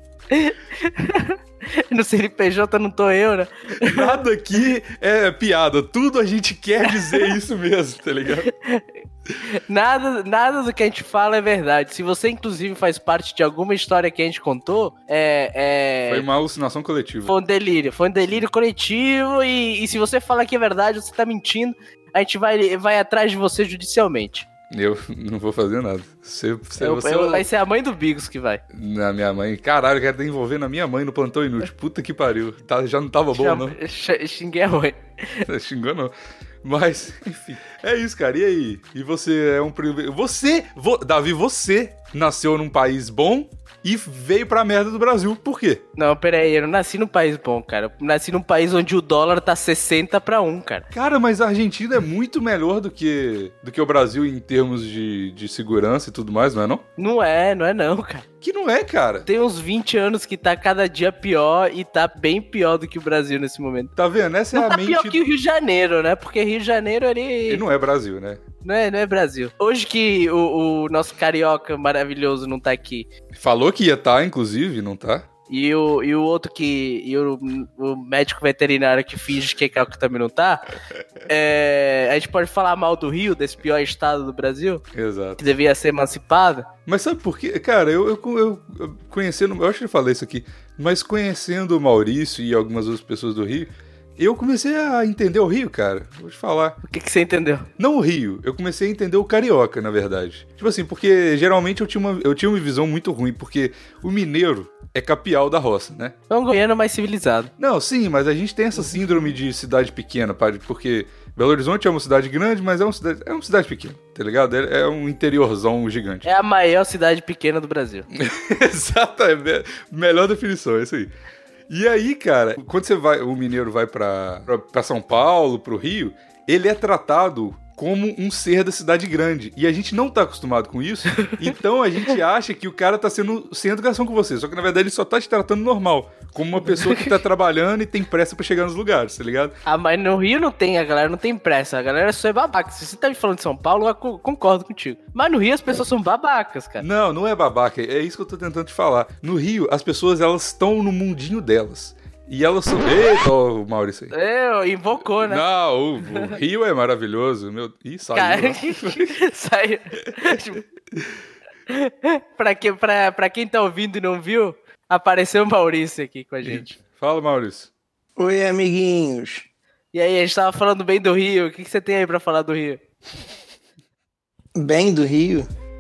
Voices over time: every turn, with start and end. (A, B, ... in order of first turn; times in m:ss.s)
0:00.3-0:04.2 A
0:03.8-0:08.5 B
0:06.9-0:07.3 A
0:08.5-0:08.8 A
0:09.7-0:16.3 A
0:16.1-0:17.3 B
0:17.3-0:24.5 A
0:24.7-0:27.4 B
0:26.8-0:28.6 A
0:28.7-0:33.8 B
0:33.3-0:35.4 A
0:35.4-0:45.8 B
0:46.0-0:50.9 A
0:50.9-0:56.8 B
0:57.0-0:58.3 A
0:58.4-0:59.3 B
0:59.3-1:03.9 A
1:04.0-1:05.2 B
1:04.5-1:07.6 A
1:07.5-1:08.4 B
1:08.6-1:13.1 A
1:13.4-1:15.3 B
1:15.5-1:20.7 A
1:21.3-1:24.8 A
1:24.9-1:25.4 B
1:25.4-1:26.7 A
1:26.9-1:36.8 B
1:36.8-1:37.7 A
1:37.8-1:46.2 B
1:46.3-1:47.5 A
1:47.6-1:56.3 B
1:56.2-1:58.1 A
1:58.1-2:01.1 B
2:01.7-2:19.6 B
2:16.7-2:17.1 A
2:19.7-2:26.8 A
2:26.8-2:34.1 B
2:34.1-2:35.4 A
2:35.2-2:39.1 B
2:36.0-2:36.3 A
2:38.2-2:40.6 A
2:41.7-2:46.7 A
2:46.4-2:47.7 B
2:48.2-2:49.5 C
2:49.9-2:52.8 A
2:54.6-2:55.5 C